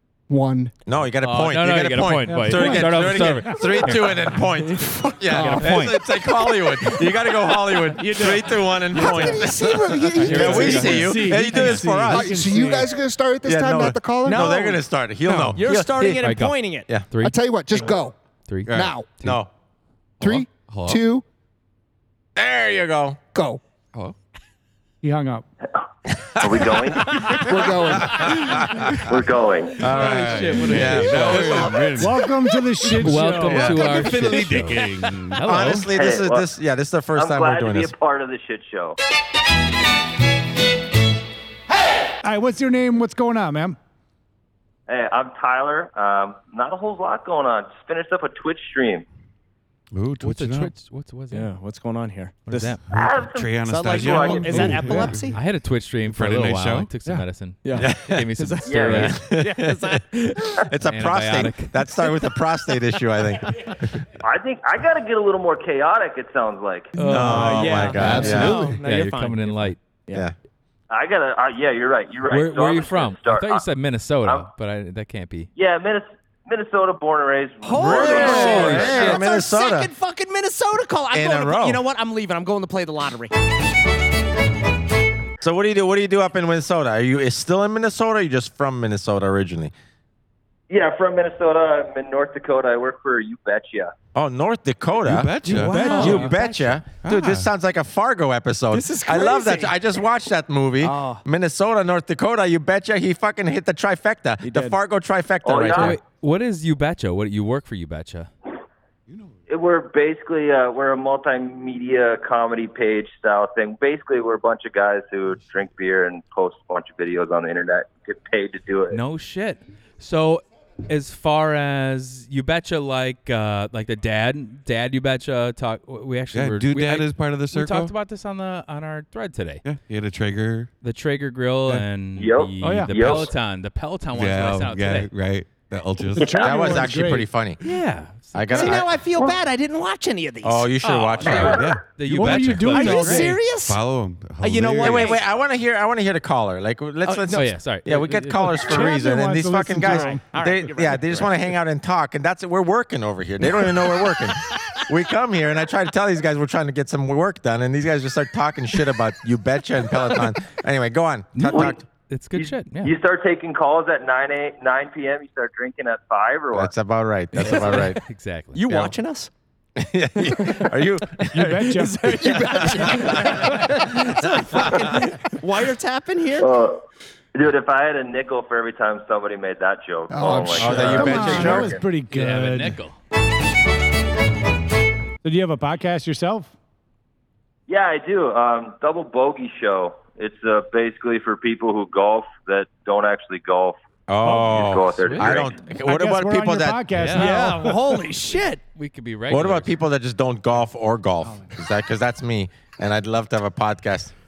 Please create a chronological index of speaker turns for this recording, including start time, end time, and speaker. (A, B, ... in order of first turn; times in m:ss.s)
0:00.3-0:00.7 A
0:00.8-0:12.3 B
0:01.2-0:04.1 C
0:02.3-0:03.4 D
0:03.6-0:03.9 A
0:04.6-0:05.9 E
0:05.3-0:05.7 D
0:05.3-0:06.0 C
0:06.8-0:07.4 E
0:08.0-0:09.6 E
0:08.1-0:08.4 D
0:08.9-0:11.2 A
0:10.1-0:12.9 D
0:11.5-0:11.8 C
0:12.1-0:14.5 A
0:13.4-0:16.1 B
0:14.2-0:14.9 E
0:15.3-0:15.6 F
0:15.4-0:16.9 E
0:16.0-0:17.4 C
0:17.2-0:18.2 A
0:18.5-0:18.9 C
0:18.7-0:19.4 F
0:18.7-0:19.2 A
0:19.2-0:19.5 B
0:20.2-0:21.0 F
0:20.2-0:21.2 A
0:22.4-0:23.2 B
0:23.3-0:23.6 A
0:25.0-0:25.4 D
0:26.4-0:27.0 B
0:26.4-0:27.5 G
0:27.3-0:28.4 A
0:27.7-0:28.5 B
0:28.4-0:30.5 G
0:28.6-0:29.0 F
0:29.8-0:31.8 C
0:29.8-0:32.1 B
0:29.9-0:32.2 F
0:32.0-0:34.0 D
0:33.0-0:35.9 C
0:33.0-0:33.9 B
0:33.8-0:35.4 F
0:33.9-0:34.9 E
0:35.4-0:37.9 B
0:35.9-0:36.5 G
0:37.1-0:39.0 G
0:42.2-0:43.8 D
0:44.9-0:49.1 G
0:49.9-0:50.7 F
0:50.2-0:51.5 C
0:51.3-0:52.8 E
0:52.5-0:52.9 C
0:52.9-0:55.3 F
0:52.9-0:54.6 G
0:53.7-0:55.4 E
0:55.3-0:59.3 C
0:56.0-0:57.2 F
0:57.6-1:00.6 E
0:57.8-0:58.3 B
0:58.6-0:59.1 G
0:59.0-1:00.0 B
1:00.6-1:03.8 B
1:00.8-1:01.7 C
1:04.2-1:06.9 G
1:07.0-1:09.8 C
1:07.0-1:10.3 E
1:07.0-1:08.7 B
1:08.1-1:08.5 D
1:10.9-1:13.7 G
1:12.3-1:15.5 C
1:14.2-1:14.5 G
1:15.6-1:18.9 G
1:17.6-1:23.3 E
1:17.7-1:19.9 B
1:18.3-1:19.3 C
1:21.1-1:21.8 B
1:25.4-1:29.7 B
1:30.7-1:33.9 G
1:34.1-1:46.0 B
1:35.0-1:36.3 F
1:35.5-1:36.3 D
1:35.5-1:36.8 E
1:36.9-1:37.5 F
1:38.7-1:39.8 E
1:40.8-1:41.2 E
1:44.4-1:44.8 E
1:45.4-1:46.0 G
1:45.7-1:48.3 C
1:49.1-1:49.3 F
1:49.5-1:59.0 G
1:58.9-2:09.6 C
2:06.3-2:07.9 F
2:09.6-2:10.7 F
2:10.8-2:15.1 C
2:12.2-2:13.4 G
2:12.6-2:12.9 D
2:14.1-2:16.4 F
2:16.2-2:16.7 G
2:16.2-2:17.3 D
2:16.3-2:17.6 B
2:17.6-2:18.9 C
2:18.3-2:19.0 B
2:18.5-2:21.3 E
2:20.4-2:21.6 B
2:21.2-2:25.1 F
2:21.3-2:21.8 G
2:21.8-2:23.0 C
2:22.1-2:23.4 D
2:22.7-2:23.8 E
2:24.4-2:25.3 E
2:24.8-2:41.9 B
2:27.0-2:27.7 E
2:27.3-2:28.1 C
2:28.1-2:30.5 D
2:29.8-2:31.6 E
2:41.3-2:42.9 C
2:41.5-2:41.8 G
2:42.3-2:46.7 G
2:46.5-2:48.0 B
2:47.3-2:47.9 E
2:47.4-2:48.7 C
2:48.6-2:49.3 E
2:49.8-2:51.5 B
2:51.3-2:52.2 D
2:51.4-2:56.5 E
2:52.2-2:53.0 A
2:52.7-2:54.8 B
2:52.9-2:53.6 D
2:54.7-2:55.0 G
2:56.4-2:56.8 G
2:57.4-3:01.9 G
3:00.1-3:01.3 A
3:00.5-3:01.0 C
3:00.6-3:01.7 B
3:00.8-3:02.8 D
3:02.1-3:03.0 C
3:05.2-3:06.5 D
3:07.7-3:15.6 G
3:14.1-3:16.9 B
3:14.9-3:15.4 C
3:15.8-3:18.1 D
3:16.9-3:17.4 C
3:17.1-3:18.6 E
3:18.7-3:19.8 C
3:19.3-3:24.1 B